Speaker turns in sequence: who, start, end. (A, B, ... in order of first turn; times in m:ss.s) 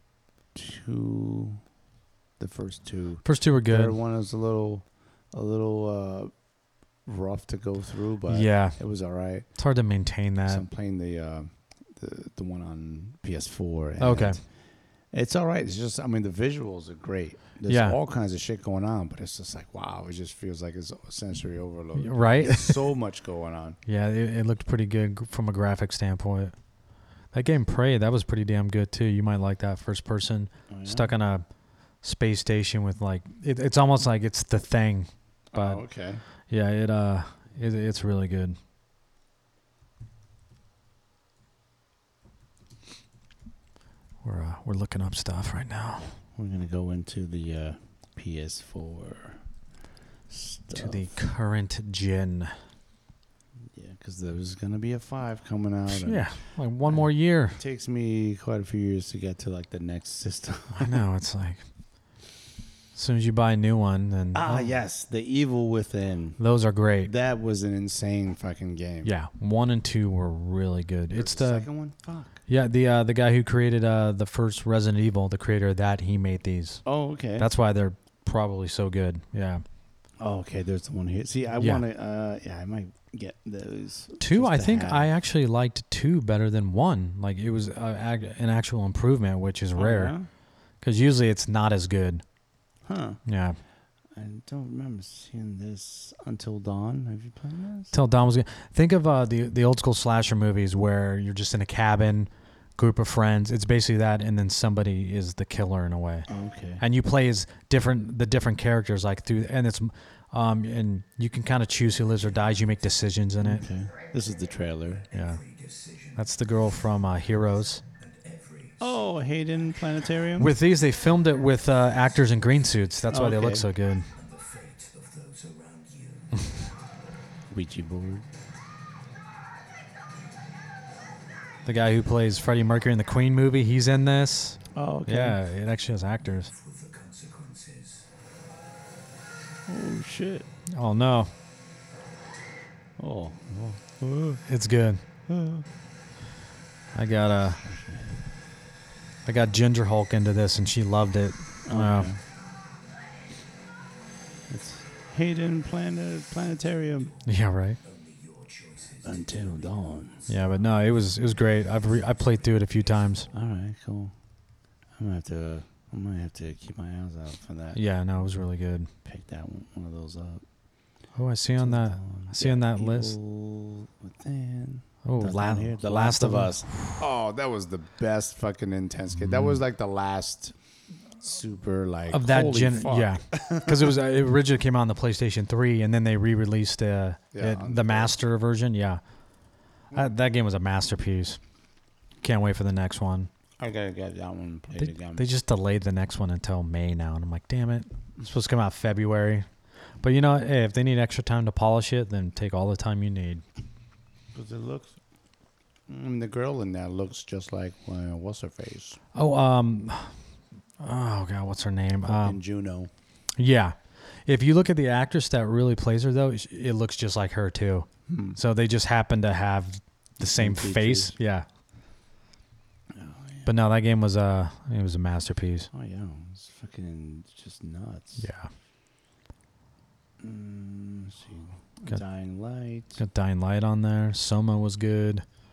0:00.5-0:01.6 A
0:02.4-0:06.3 A
0:03.2-0:03.9 B
0:07.1-0:09.5 A
0:08.3-0:08.8 B
0:09.6-0:10.6 B
0:10.5-0:14.4 A
0:14.0-0:14.4 B
0:15.1-0:23.8 A
0:17.7-0:18.0 B
0:22.0-0:22.9 B
0:23.9-0:26.6 B
0:27.3-0:31.5 B
0:30.7-0:31.1 A
0:32.0-0:35.8 B
0:35.5-0:36.2 A
0:36.5-0:38.6 B
0:44.2-0:46.2 B
0:46.4-0:49.4 A
0:50.3-0:51.1 A
0:50.8-0:52.6 B
0:53.7-1:01.0 A
0:55.9-0:57.6 B
1:00.8-1:01.6 B
1:02.9-1:04.7 B
1:04.4-1:06.4 A
1:06.4-1:07.1 B
1:07.0-1:09.1 A
1:09.0-1:11.7 B
1:11.1-1:12.4 A
1:12.5-1:16.8 B
1:16.8-1:17.5 A
1:17.4-1:19.6 B
1:20.2-1:25.1 A
1:21.6-1:21.8 B
1:24.2-1:30.1 B
1:29.8-1:30.3 A
1:30.8-1:32.2 B
1:32.9-1:33.2 A
1:33.3-1:33.6 B
1:34.2-1:38.0 A
1:37.9-1:46.3 B
1:46.3-1:46.8 A
1:46.8-1:53.7 B
1:53.4-1:55.1 A
1:55.1-1:56.2 C
1:55.1-1:55.4 B
1:56.2-1:57.8 B
1:57.9-1:59.0 C
1:58.8-2:00.5 A
2:00.3-2:04.1 B
2:03.1-2:03.7 A
2:04.1-2:06.6 C
2:07.5-2:08.2 A
2:11.7-2:16.5 B
2:14.7-2:15.4 A
2:16.6-2:18.1 C
2:19.7-2:20.5 A
2:20.7-2:21.3 B
2:23.0-2:24.4 A
2:24.5-2:25.0 B
2:25.3-2:25.7 A
2:26.9-2:27.6 B
2:27.6-2:28.1 A
2:29.3-2:32.1 B
2:31.6-2:32.2 A
2:34.5-2:37.2 A
2:37.2-2:37.8 B
2:37.8-2:40.3 C
2:39.0-2:40.3 A
2:40.3-2:43.3 B
2:43.3-2:44.1 A
2:45.0-2:47.8 A
2:47.7-2:48.9 B
2:49.0-2:50.4 A
2:51.2-2:53.2 B
2:51.6-3:00.6 A
2:55.0-2:57.0 B
2:59.2-2:59.6 B
3:01.2-3:04.0 A
3:02.1-3:09.0 B
3:07.3-3:08.2 A
3:09.9-3:11.4 B
3:12.2-3:13.3 B
3:13.6-3:15.3 A
3:14.8-3:19.5 B
3:20.0-3:23.4 B
3:24.3-3:25.0 A
3:25.9-3:29.0 A
3:29.2-3:30.2 B
3:30.8-3:32.4 B
3:32.1-3:32.9 A
3:33.4-3:41.5 B
3:38.1-3:38.4 A
3:40.2-3:41.2 A
3:42.9-3:43.6 A
3:43.5-3:45.7 B
3:45.7-3:48.3 A
3:48.2-3:48.5 B
3:50.2-3:53.0 A
3:53.0-3:55.2 B